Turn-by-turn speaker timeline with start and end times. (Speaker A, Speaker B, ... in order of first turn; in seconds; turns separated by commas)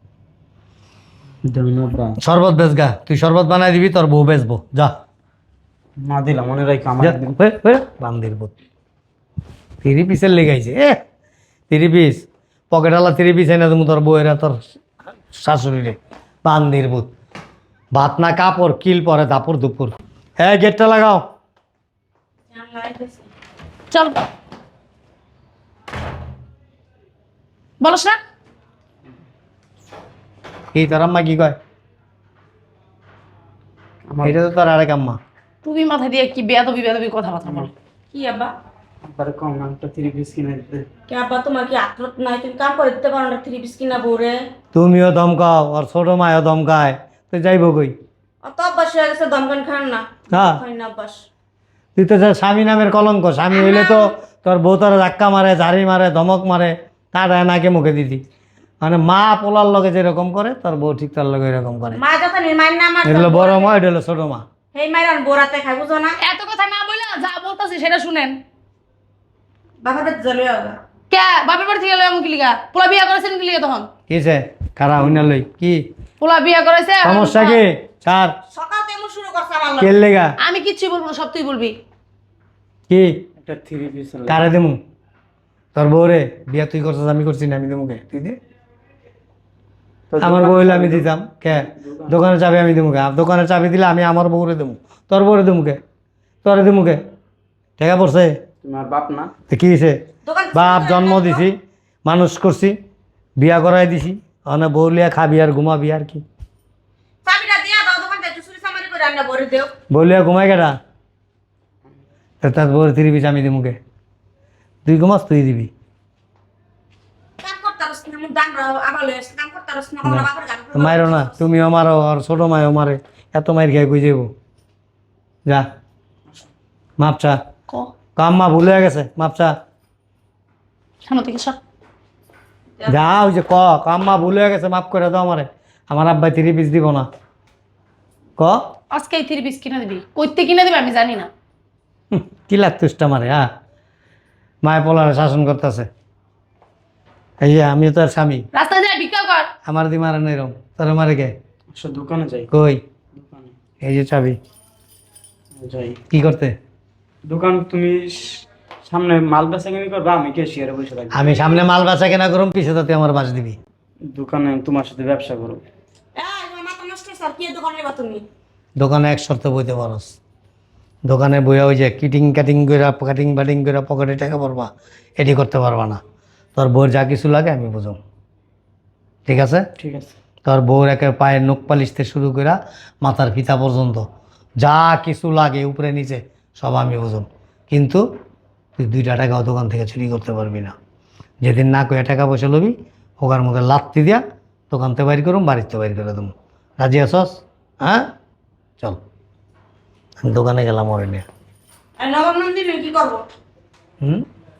Speaker A: 1.5-2.2, Speaker B: 2.2-4.9, Speaker A: 6.0-7.3, Speaker B: 7.0-8.5, Speaker B: 9.8-11.0, Speaker B: 11.7-14.7, Speaker B: 15.3-17.1, Speaker B: 17.9-21.2, Speaker C: 22.5-23.2, Speaker D: 23.9-24.2, Speaker D: 27.8-28.2, Speaker B: 30.7-31.6, Speaker A: 34.1-34.4, Speaker B: 34.2-35.2, Speaker D: 35.6-37.7, Speaker C: 38.1-38.5, Speaker A: 39.0-40.9, Speaker C: 41.1-44.4, Speaker B: 44.7-47.9, Speaker C: 48.4-51.2, Speaker B: 50.3-50.6, Speaker B: 52.0-58.2, Speaker C: 53.5-54.1, Speaker B: 58.8-62.0, Speaker C: 61.9-63.7, Speaker B: 63.0-64.5, Speaker C: 64.7-66.2, Speaker D: 66.2-68.4, Speaker C: 69.8-70.8, Speaker D: 71.1-73.9, Speaker B: 74.1-75.8, Speaker A: 75.0-75.2, Speaker D: 76.2-77.6, Speaker B: 77.0-78.3, Speaker C: 78.5-80.0, Speaker B: 79.8-80.3, Speaker D: 80.4-81.8, Speaker B: 82.9-83.2, Speaker A: 83.4-84.5, Speaker B: 84.3-84.8, Speaker B: 85.8-88.3, Speaker A: 90.1-92.2, Speaker B: 90.2-95.8, Speaker B: 96.4-97.0, Speaker B: 97.8-98.3, Speaker A: 98.6-99.3, Speaker B: 99.5-100.0, Speaker C: 100.2-101.4, Speaker B: 100.5-102.8, Speaker B: 103.4-106.2, Speaker C: 107.2-109.7, Speaker B: 109.9-110.8, Speaker B: 112.4-113.8, Speaker B: 114.8-115.7, Speaker C: 117.4-121.4, Speaker B: 120.0-124.3, Speaker B: 127.0-127.4, Speaker B: 128.2-129.5, Speaker D: 131.1-131.6, Speaker B: 132.9-137.1, Speaker D: 138.9-141.3, Speaker B: 142.1-143.5, Speaker B: 144.6-145.9, Speaker B: 147.4-148.5, Speaker D: 148.5-149.5, Speaker B: 149.7-151.3, Speaker A: 151.7-152.5, Speaker B: 152.5-152.8, Speaker A: 153.1-153.5, Speaker B: 153.8-154.4, Speaker A: 155.6-156.0, Speaker B: 156.1-156.6, Speaker A: 157.2-161.3, Speaker B: 161.1-163.6, Speaker C: 161.3-161.6, Speaker A: 164.1-165.6, Speaker C: 166.2-168.2, Speaker B: 168.8-170.1, Speaker B: 171.1-176.0, Speaker B: 176.6-178.0, Speaker B: 179.3-179.6, Speaker A: 179.8-180.1, Speaker B: 180.4-184.1, Speaker B: 184.6-188.0, Speaker B: 188.8-190.7, Speaker B: 191.4-198.1, Speaker B: 200.2-201.3, Speaker C: 202.0-203.2